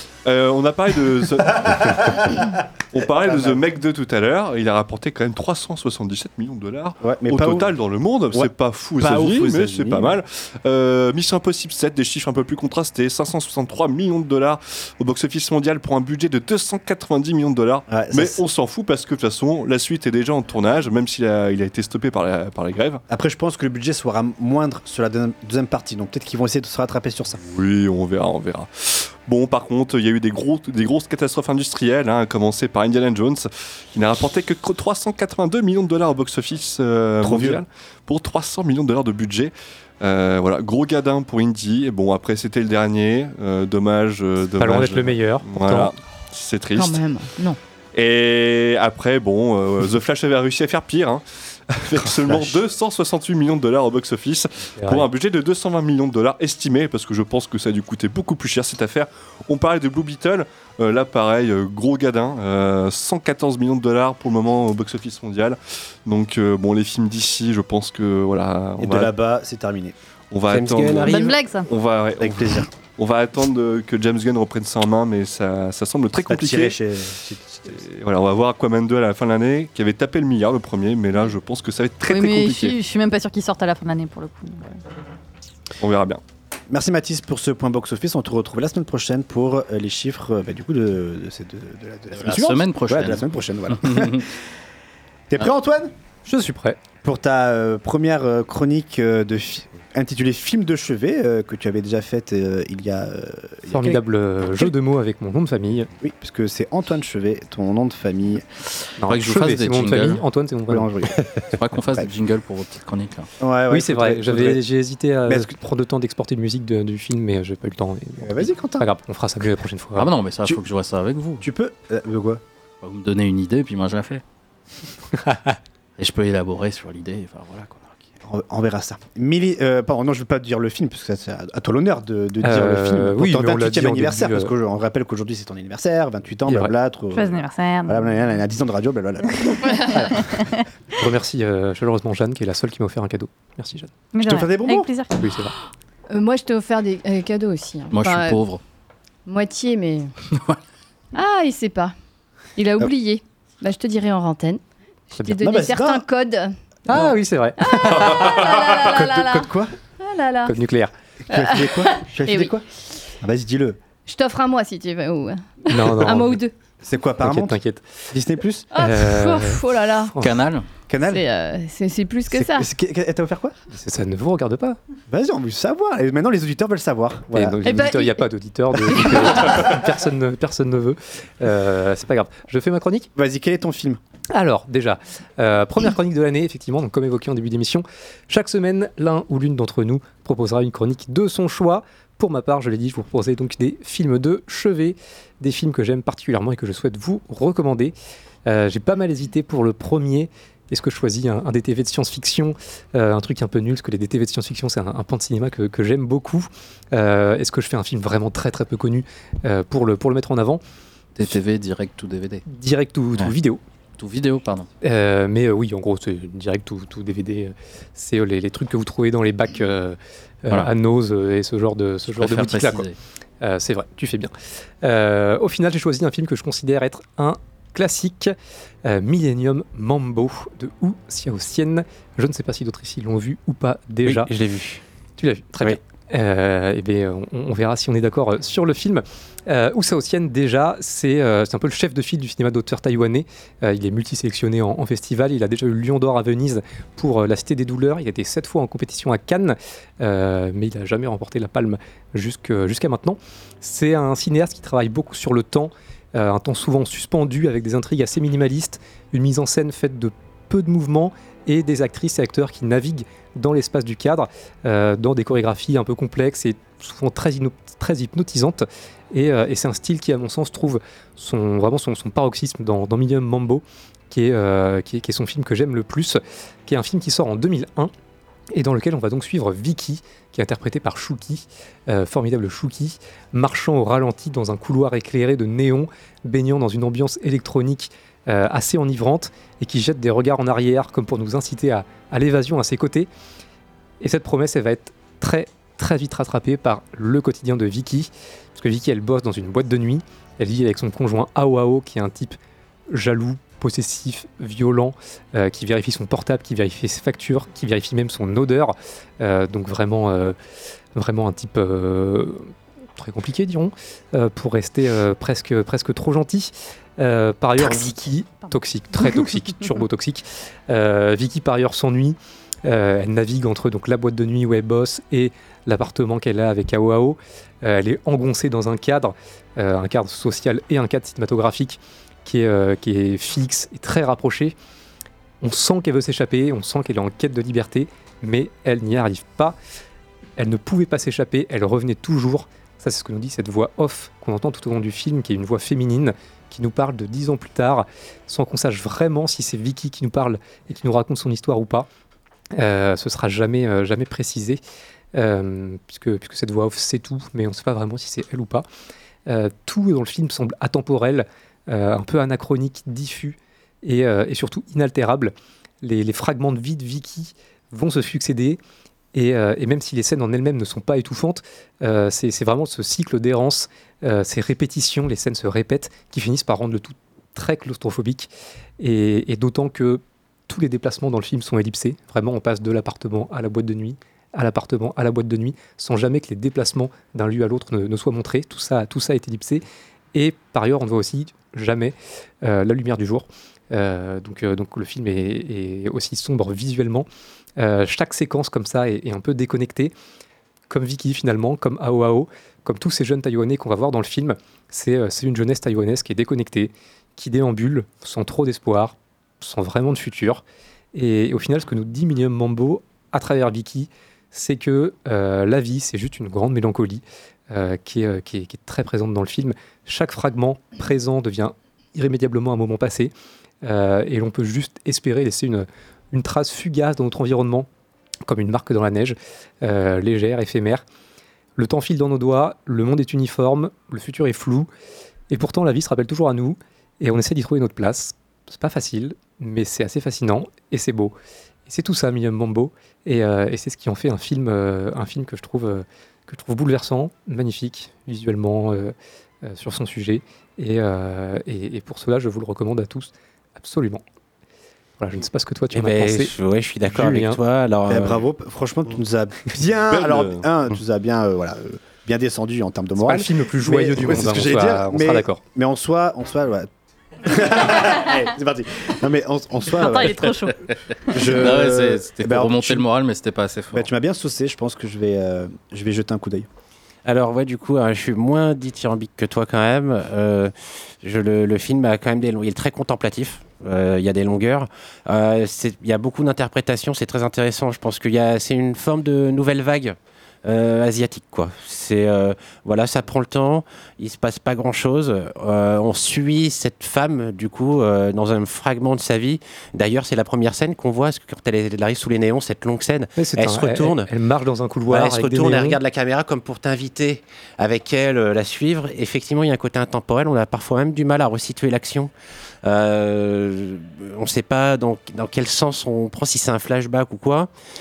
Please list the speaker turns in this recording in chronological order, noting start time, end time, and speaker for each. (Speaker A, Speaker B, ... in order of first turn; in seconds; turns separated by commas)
Speaker A: 0.2-23.0, Speaker B: 3.2-3.6, Speaker B: 7.0-7.7, Speaker B: 8.3-10.2, Speaker B: 17.9-18.4, Speaker B: 23.1-27.4, Speaker A: 27.4-47.0, Speaker B: 37.2-37.6, Speaker C: 44.6-45.9, Speaker D: 46.7-47.6, Speaker A: 47.9-69.1, Speaker C: 54.8-55.1, Speaker B: 68.8-69.9, Speaker A: 70.3-76.8, Speaker E: 70.5-71.4, Speaker F: 71.0-71.7, Speaker B: 72.2-72.7, Speaker B: 76.2-77.8, Speaker A: 77.7-82.7, Speaker F: 82.1-84.8, Speaker A: 85.8-86.2, Speaker B: 86.7-94.3, Speaker G: 92.1-94.3, Speaker B: 95.3-95.9, Speaker C: 96.2-96.8, Speaker B: 97.0-104.0, Speaker C: 103.7-105.9, Speaker B: 106.0-108.5, Speaker C: 109.0-110.9, Speaker G: 109.1-110.2, Speaker B: 110.7-111.2, Speaker G: 111.5-113.3, Speaker B: 113.4-114.6, Speaker C: 113.7-120.1, Speaker B: 115.3-115.5, Speaker B: 118.2-118.9, Speaker G: 120.0-121.5, Speaker B: 121.4-122.4, Speaker G: 122.8-124.2, Speaker G: 126.0-128.0, Speaker B: 128.2-140.0, Speaker C: 132.4-134.5, Speaker C: 136.4-136.7, Speaker F: 137.1-138.1, Speaker C: 141.0-143.9, Speaker F: 144.1-145.2, Speaker B: 144.2-144.9, Speaker C: 145.2-145.5, Speaker D: 146.1-148.4, Speaker G: 147.9-148.6, Speaker D: 149.2-150.1, Speaker G: 150.3-150.6, Speaker D: 151.1-151.9, Speaker D: 152.6-159.5, Speaker B: 155.4-156.0, Speaker C: 156.9-158.1, Speaker B: 158.6-159.7, Speaker D: 160.0-160.6, Speaker C: 160.4-160.9, Speaker B: 161.3-162.6, Speaker D: 161.3-162.5, Speaker B: 163.2-163.8, Speaker D: 164.1-166.5, Speaker C: 165.7-166.4, Speaker B: 166.8-167.6, Speaker C: 167.2-168.0, Speaker B: 168.1-168.7, Speaker D: 168.7-170.1, Speaker C: 168.8-169.6, Speaker G: 170.2-170.7, Speaker B: 170.9-171.2, Speaker D: 171.0-172.7, Speaker B: 172.3-173.6, Speaker C: 173.7-174.8, Speaker B: 175.1-177.6, Speaker C: 177.3-183.1, Speaker D: 177.6-178.2, Speaker B: 178.9-179.5, Speaker D: 179.0-179.4, Speaker B: 183.2-184.0, Speaker C: 184.3-197.9, Speaker C: 198.4-210.6, Speaker G: 211.2-212.4, Speaker C: 212.4-213.6, Speaker G: 214.0-214.7, Speaker C: 214.8-222.9, Speaker G: 222.1-223.0, Speaker C: 223.4-234.3, Speaker E: 234.0-234.8, Speaker C: 235.2-277.9, Speaker C: 278.5-293.1, Speaker C: 294.0-302.4, Speaker C: 302.9-310.4, Speaker C: 310.9-334.5, Speaker C: 335.4-339.6, Speaker C: 340.4-351.9, Speaker C: 352.5-354.6, Speaker C: 355.1-358.6, Speaker C: 359.3-368.6, Speaker C: 369.1-378.3, Speaker C: 378.8-397.1, Speaker C: 397.6-399.9, Speaker C: 400.7-410.4, Speaker C: 410.9-423.1, Speaker C: 423.6-427.7, Speaker C: 428.2-430.8, Speaker C: 431.6-434.7, Speaker C: 435.3-441.1, Speaker C: 441.6-454.0, Speaker C: 455.0-456.3, Speaker E: 455.7-458.2, Speaker C: 456.9-457.4, Speaker B: 457.9-466.7, Speaker A: 459.9-460.4, Speaker C: 463.0-465.4, Speaker B: 467.2-470.5, Speaker F: 469.7-470.7, Speaker B: 471.1-472.9, Speaker G: 471.3-473.9, Speaker B: 473.7-476.5, Speaker E: 477.1-504.1, Speaker C: 503.2-505.8, Speaker E: 504.9-512.1, Speaker E: 512.6-517.5